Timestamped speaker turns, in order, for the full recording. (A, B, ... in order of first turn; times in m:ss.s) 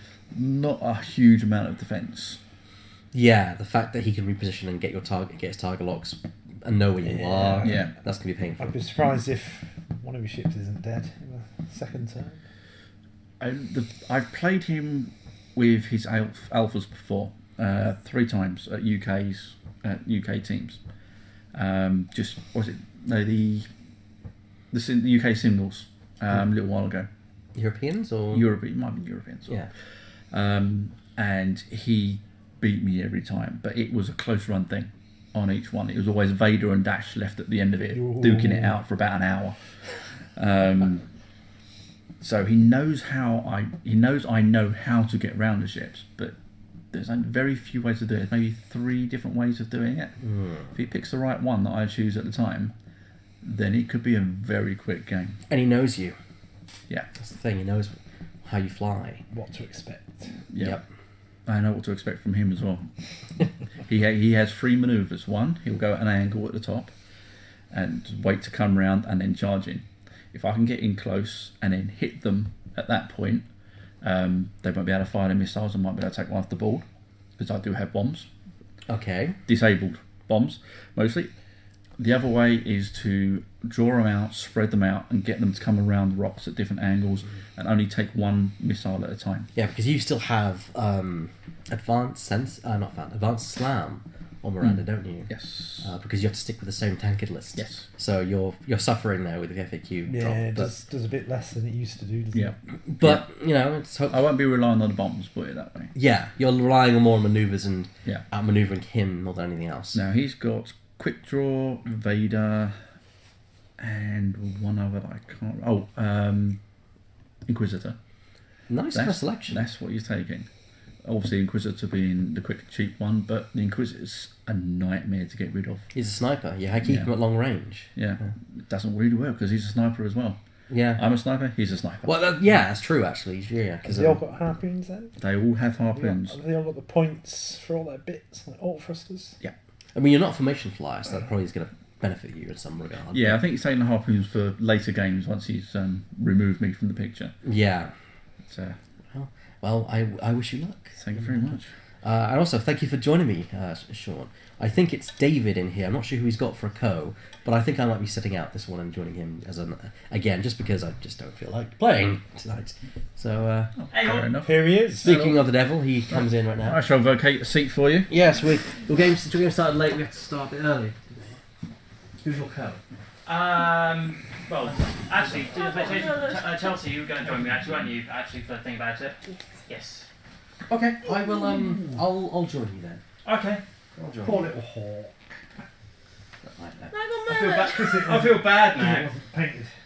0:00.3-0:02.4 A
0:03.1-0:08.8 B
0:07.0-0:07.9 C
0:07.6-0:07.9 A
0:08.6-0:12.4 C
0:13.4-0:20.8 A
0:21.5-0:23.7 A
0:24.7-0:27.1 A
0:27.6-0:28.5 B
0:28.3-0:41.1 A
0:37.9-0:38.8 C
0:42.2-0:46.4 A
0:46.9-0:50.2 A
0:50.2-0:50.7 B
0:50.7-0:52.7 A
0:53.4-0:55.4 A
0:55.5-0:56.2 B
0:57.2-0:59.2 B
0:59.3-1:00.4 C
1:00.5-1:00.8 A
1:01.5-1:02.9 A
1:03.9-1:06.9 A
1:07.7-1:13.4 A
1:14.0-1:16.8 A
1:17.4-1:18.3 A
1:18.9-1:19.4 B
1:19.5-1:21.3 A
1:22.0-1:29.5 A
1:29.6-1:40.7 B
1:34.6-1:35.9 A
1:37.6-1:37.9 A
1:40.1-1:42.6 C
1:42.3-1:43.2 A
1:42.9-1:44.2 B
1:44.1-1:45.9 A
1:46.0-1:50.0 B
1:49.9-1:52.8 A
1:53.8-1:56.6 A
1:57.5-1:58.0 A
1:58.7-1:59.6 B
1:58.9-2:00.5 A
2:01.0-2:05.9 A
2:05.9-2:07.9 B
2:06.8-2:07.1 A
2:08.0-2:10.4 A
2:10.7-2:11.0 B
2:11.0-2:12.1 A
2:12.0-2:14.2 B
2:13.9-2:15.1 C
2:15.2-2:16.4 A
2:16.0-2:19.4 C
2:20.0-2:23.4 B
2:23.1-2:27.3 A
2:27.4-2:27.9 B
2:28.5-2:28.8 A
2:29.1-2:43.7 B
2:31.0-2:31.7 A
2:43.8-2:45.4 A
2:43.9-2:44.3 D
2:44.4-2:45.1 C
2:45.0-2:46.8 B
2:46.6-2:48.1 A
2:48.1-2:51.2 B
2:52.2-2:52.8 B
2:53.3-3:00.1 D
2:55.4-2:56.5 B
3:00.7-3:03.0 B
3:03.2-3:03.6 D
3:04.0-3:04.5 B
3:04.2-3:05.2 C
3:06.4-3:07.7 B
3:06.9-3:09.1 D
3:07.3-3:09.7 C